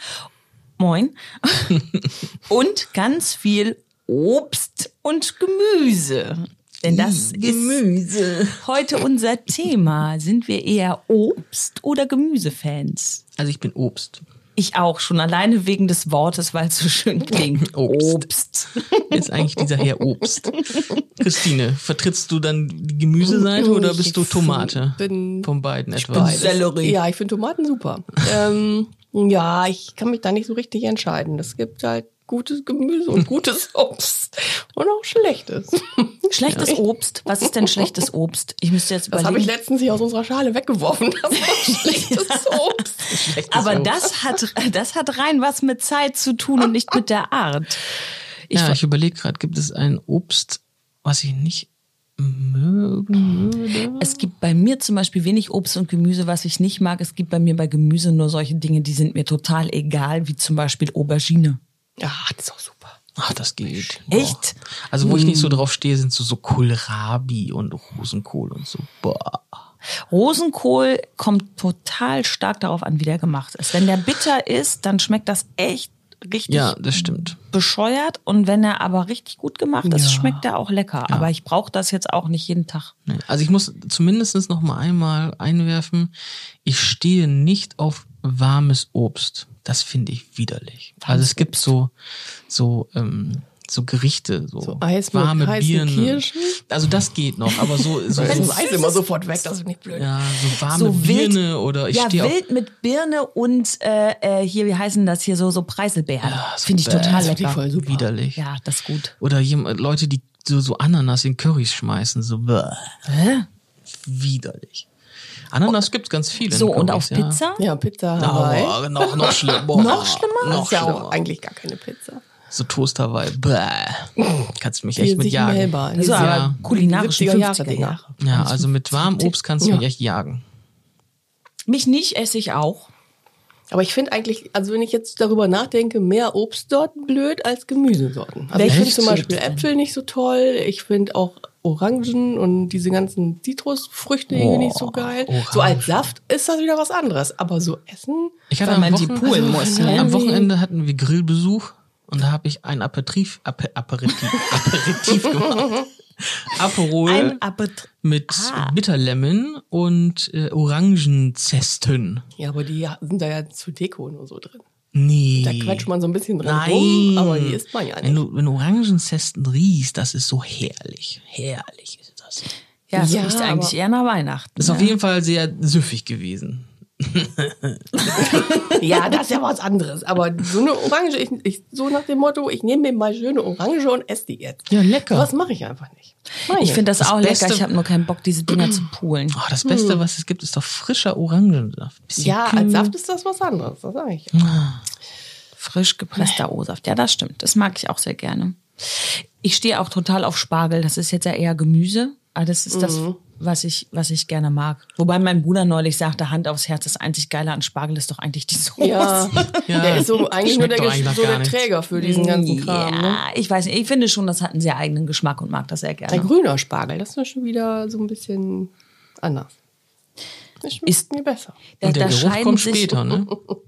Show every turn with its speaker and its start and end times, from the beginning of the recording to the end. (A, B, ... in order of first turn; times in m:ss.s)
0:00.8-0:07.8 A
0:06.8-0:08.6 B
0:08.6-0:13.2 A
0:13.4-0:14.2 B
0:14.6-0:19.2 A
0:17.4-0:18.3 B
0:19.0-0:26.6 B
0:23.2-0:36.8 C
0:26.1-0:27.0 A
0:36.3-0:39.5 A
0:39.1-0:44.1 C
0:41.4-0:42.6 A
0:43.1-0:43.9 B
0:43.5-0:47.8 A
0:48.5-0:48.8 A
0:48.5-0:54.2 B
0:53.9-1:01.6 A
1:02.0-1:03.0 C
1:03.2-1:09.6 B
1:04.0-1:05.6 A
1:10.1-1:22.9 A
1:16.5-1:17.4 B
1:19.8-1:20.4 C
1:23.1-1:31.9 B
1:31.1-1:31.6 A
1:32.5-1:38.6 B
1:34.6-1:36.6 C
1:38.1-1:38.9 A
1:38.1-1:40.5 C
1:39.9-1:42.4 B
1:40.7-1:47.6 A
1:46.2-1:48.4 B
1:46.9-1:48.1 C
1:48.4-1:49.1 A
1:49.2-1:53.1 B
1:53.1-1:53.5 A
1:53.9-1:54.9 B
1:55.5-1:57.4 B
1:56.4-1:57.6 A
1:57.6-2:02.2 C
1:58.2-2:01.2 B
1:59.7-2:00.8 A
2:02.5-2:06.6 B
2:05.0-2:08.0 C
2:05.9-2:09.3 A
2:08.2-2:10.4 B
2:09.6-2:09.8 C
2:11.7-2:12.9 A
2:13.7-2:30.5 C
2:18.5-2:19.4 A
2:18.6-2:19.6 B
2:24.3-2:26.1 B
2:28.5-2:37.4 B
2:28.6-2:30.2 A
2:37.0-2:38.8 A
2:38.0-2:42.2 B
2:42.4-2:44.6 C
2:44.9-2:45.9 B
2:45.4-2:48.2 C
2:46.4-2:52.5 B
2:52.9-2:55.0 A
2:52.9-2:53.8 C
2:54.6-2:58.7 B
2:58.1-2:58.8 A
2:58.3-3:06.9 C
3:04.7-3:05.3 B
3:06.5-3:09.4 A
3:07.0-3:07.7 B
3:09.3-3:12.9 B
3:09.6-3:10.0 C
3:12.2-3:14.4 C
3:14.3-3:14.8 B
3:15.6-3:30.1 A
3:22.7-3:23.2 C
3:28.8-3:33.2 C
3:29.6-3:31.6 B
3:31.9-3:36.3 A
3:36.1-3:39.5 C
3:40.6-3:41.6 C
3:41.8-3:43.0 A
3:41.8-3:43.4 B